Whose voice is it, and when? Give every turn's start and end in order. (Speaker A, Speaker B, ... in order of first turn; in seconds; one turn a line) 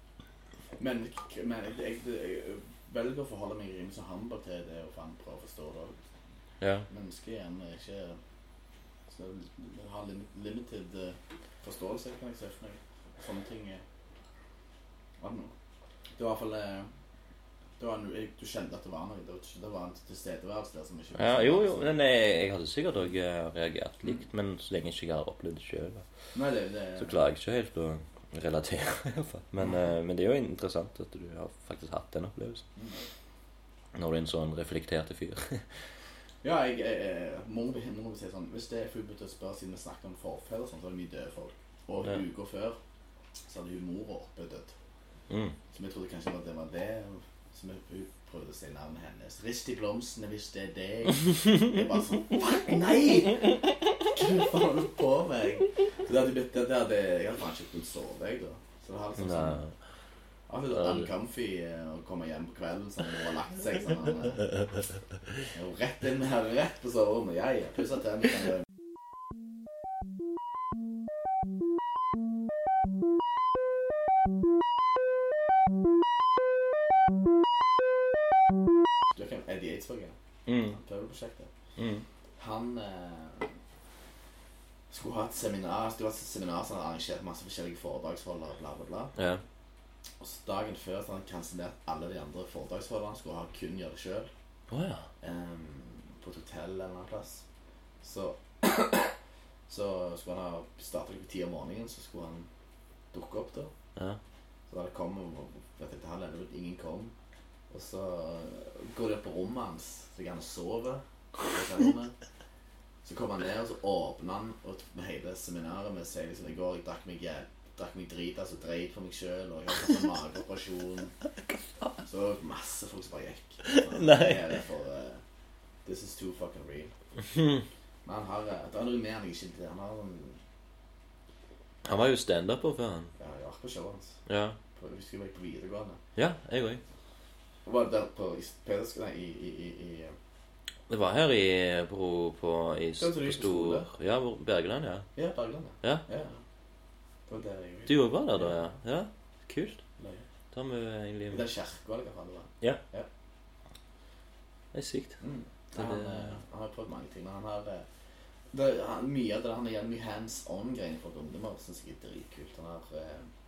Speaker A: 0.8-6.0
Speaker B: 6.6-6.9
Speaker A: 6.9-8.2
Speaker A: 9.1-13.8
Speaker A: 15.2-15.5
Speaker A: 16.2-16.9
Speaker A: 17.8-21.9
Speaker B: 21.2-26.1
Speaker A: 26.3-27.2
Speaker B: 27.0-32.6
Speaker A: 32.8-33.0
Speaker B: 34.0-35.7
Speaker A: 36.4-42.8
Speaker A: 43.5-44.7
Speaker B: 45.3-45.6
Speaker A: 45.7-59.6
Speaker B: 59.2-59.7
Speaker A: 60.5-64.5
Speaker B: 60.7-61.1
Speaker A: 65.5-68.6
Speaker A: 79.1-81.5
Speaker B: 80.5-80.8
Speaker B: 81.8-82.0
Speaker A: 82.4-83.5
Speaker A: 84.9-89.1
Speaker B: 89.2-89.4
Speaker A: 90.2-94.3
Speaker B: 94.7-95.1
Speaker A: 95.2-97.4
Speaker A: 98.0-99.1
Speaker A: 99.7-102.5
Speaker A: 103.1-103.7
Speaker A: 104.7-107.2
Speaker A: 107.7-112.2
Speaker A: 113.0-121.2
Speaker A: 122.0-125.2
Speaker B: 123.7-124.5
Speaker A: 125.8-126.9
Speaker A: 128.1-130.4
Speaker B: 131.8-133.1
Speaker A: 133.2-134.2
Speaker B: 134.3-134.6
Speaker A: 134.8-136.0
Speaker B: 136.2-136.8
Speaker A: 137.7-140.2
Speaker B: 140.9-145.1
Speaker A: 143.0-143.9
Speaker A: 145.2-146.4
Speaker A: 147.3-148.6
Speaker B: 147.9-149.8
Speaker A: 150.0-150.2
Speaker B: 150.5-151.5
Speaker A: 151.3-153.1
Speaker B: 154.7-155.2
Speaker A: 155.2-157.9
Speaker B: 155.7-156.3
Speaker A: 158.5-163.3